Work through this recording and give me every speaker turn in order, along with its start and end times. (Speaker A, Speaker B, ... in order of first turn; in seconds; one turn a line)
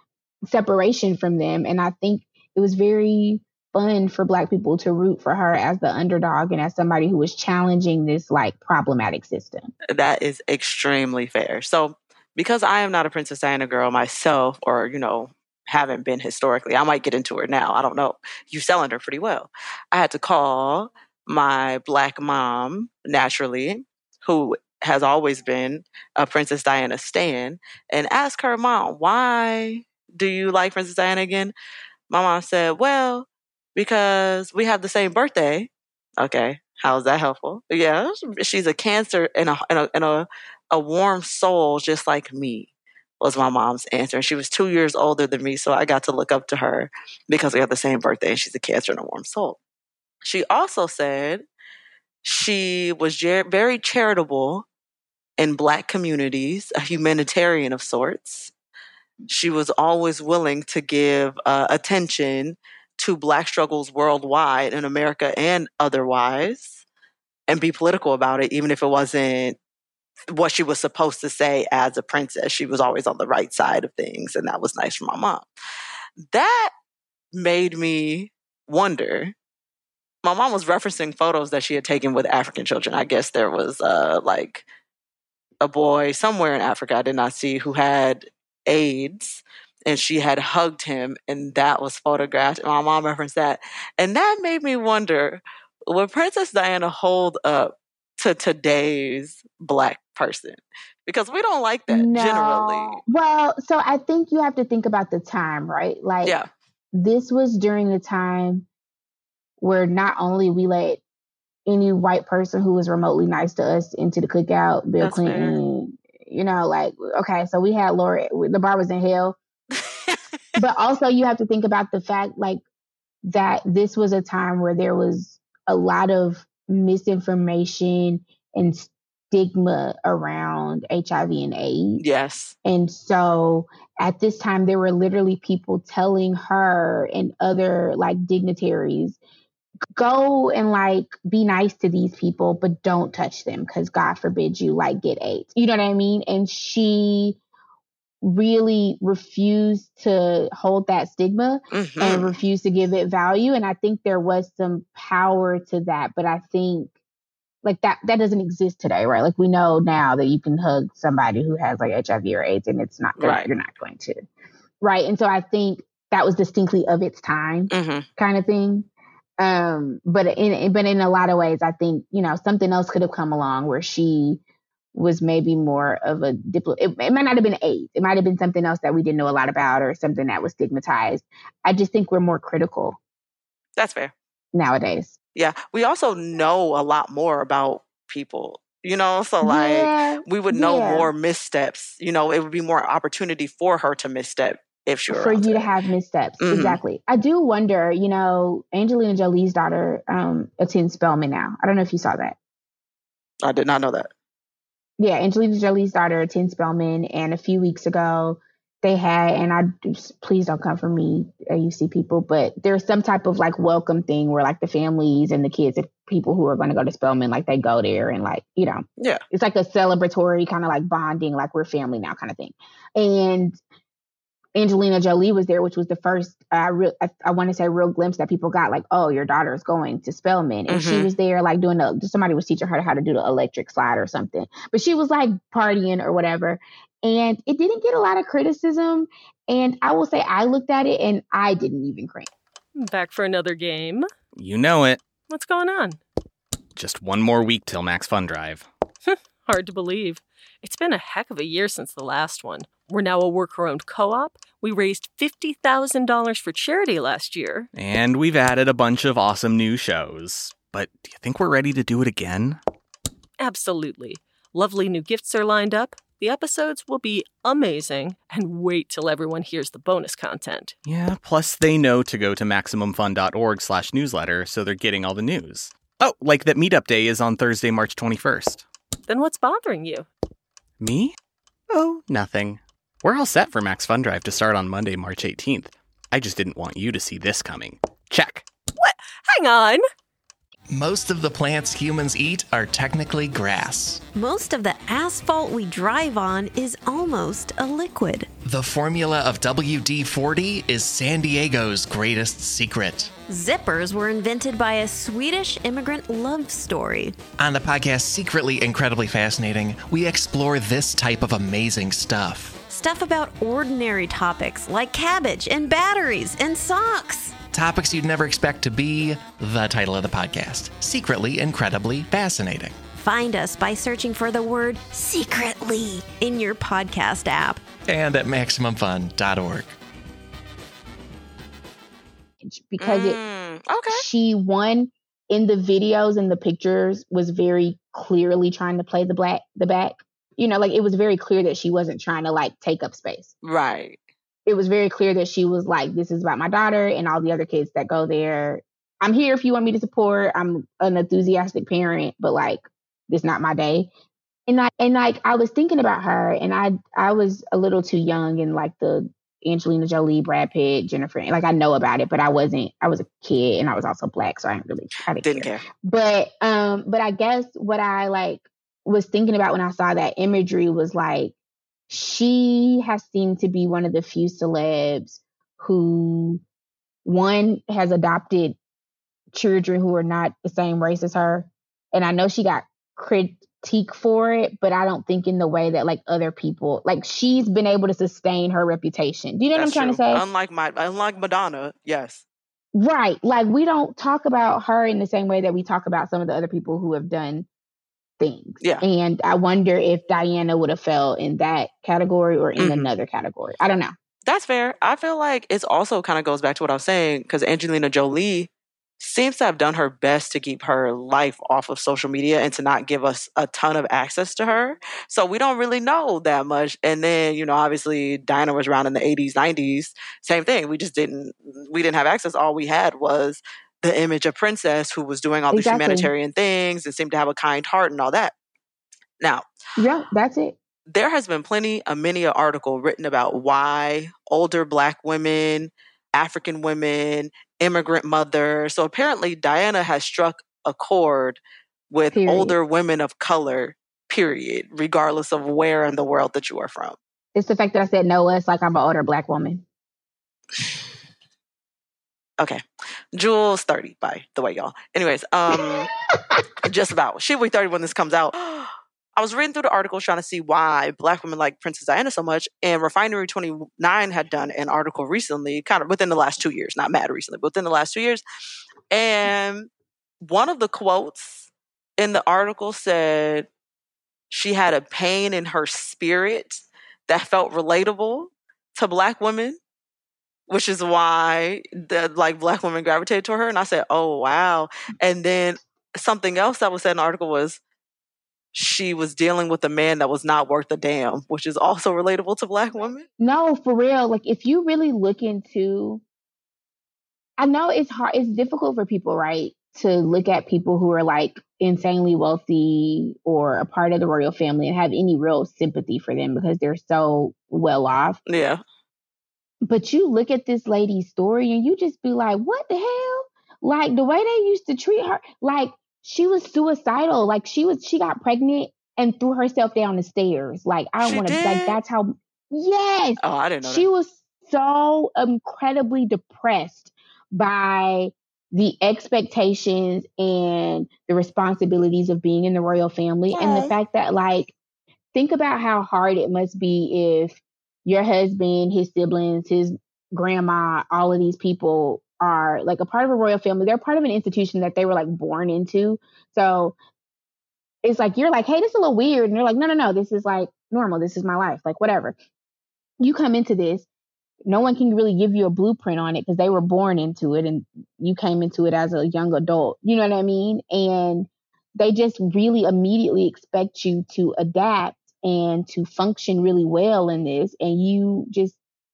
Speaker A: 0.5-9.7
Speaker B: 9.9-31.5
Speaker B: 32.1-49.6
Speaker B: 50.2-51.5
Speaker B: 52.2-54.7
Speaker B: 55.4-58.5
Speaker B: 59.3-66.8
Speaker B: 67.5-69.6
Speaker B: 70.3-75.5
Speaker B: 76.3-76.7
Speaker B: 77.3-79.3
Speaker B: 80.2-84.7
Speaker B: 85.6-103.0
Speaker A: 101.9-106.4
Speaker A: 106.9-108.7
Speaker A: 109.6-111.0
Speaker A: 111.7-119.4
Speaker B: 115.0-115.6
Speaker B: 119.8-120.2
Speaker A: 120.6-122.6
Speaker A: 123.3-132.0
Speaker B: 132.0-132.6
Speaker A: 132.7-139.2
Speaker A: 139.9-147.4
Speaker A: 148.2-156.9
Speaker B: 151.7-152.4
Speaker A: 157.6-164.2
Speaker B: 163.2-163.5
Speaker A: 164.8-168.9
Speaker B: 167.7-168.1
Speaker A: 169.4-174.4
Speaker A: 174.9-183.0
Speaker B: 183.8-184.1
Speaker A: 184.5-185.2
Speaker B: 185.3-195.7
Speaker A: 189.4-191.1
Speaker A: 195.1-202.4
Speaker B: 196.4-196.8
Speaker B: 203.4-204.1
Speaker A: 205.0-223.6
Speaker A: 224.6-242.3
Speaker B: 230.7-231.1
Speaker C: 242.8-244.1
Speaker D: 244.4-245.0
Speaker C: 245.3-246.0
Speaker D: 246.8-248.7
Speaker C: 249.1-257.7
Speaker D: 257.7-262.6
Speaker C: 263.4-270.8
Speaker D: 270.9-278.6
Speaker C: 279.1-280.1
Speaker D: 280.8-281.2
Speaker D: 281.7-288.4
Speaker C: 288.8-289.8
Speaker E: 290.7-294.0
Speaker F: 294.1-298.3
Speaker E: 298.4-303.1
Speaker F: 303.3-307.2
Speaker E: 307.4-312.6
Speaker F: 312.7-317.4
Speaker E: 317.5-322.8
Speaker F: 323.0-327.6
Speaker E: 327.9-329.7
Speaker A: 332.4-333.2
Speaker B: 332.8-334.1
Speaker A: 333.9-343.4
Speaker B: 343.4-344.0
Speaker A: 344.5-353.9
Speaker A: 354.5-371.3
Speaker B: 365.2-365.6
Speaker A: 371.9-376.4
Speaker A: 377.1-378.6
Speaker A: 379.3-390.2
Speaker B: 389.5-392.2
Speaker A: 392.7-397.5
Speaker A: 398.2-403.9
Speaker B: 402.6-402.9
Speaker B: 404.2-428.3
Speaker A: 425.5-426.1
Speaker B: 429.2-429.4
Speaker A: 429.8-430.6
Speaker B: 430.9-447.0
Speaker A: 442.1-442.6
Speaker A: 447.4-449.6
Speaker B: 453.1-455.9
Speaker A: 455.5-456.4
Speaker B: 456.6-468.2
Speaker B: 468.9-469.7
Speaker B: 470.2-473.5
Speaker B: 474.3-479.6
Speaker B: 480.5-487.6
Speaker B: 488.5-493.1
Speaker A: 493.2-496.0
Speaker A: 497.4-508.2
Speaker B: 508.3-508.6
Speaker A: 509.6-534.5
Speaker B: 521.0-521.8
Speaker B: 523.2-523.9
Speaker B: 533.3-533.8
Speaker A: 535.1-546.8
Speaker A: 547.8-552.1
Speaker A: 553.0-553.9
Speaker A: 554.5-568.6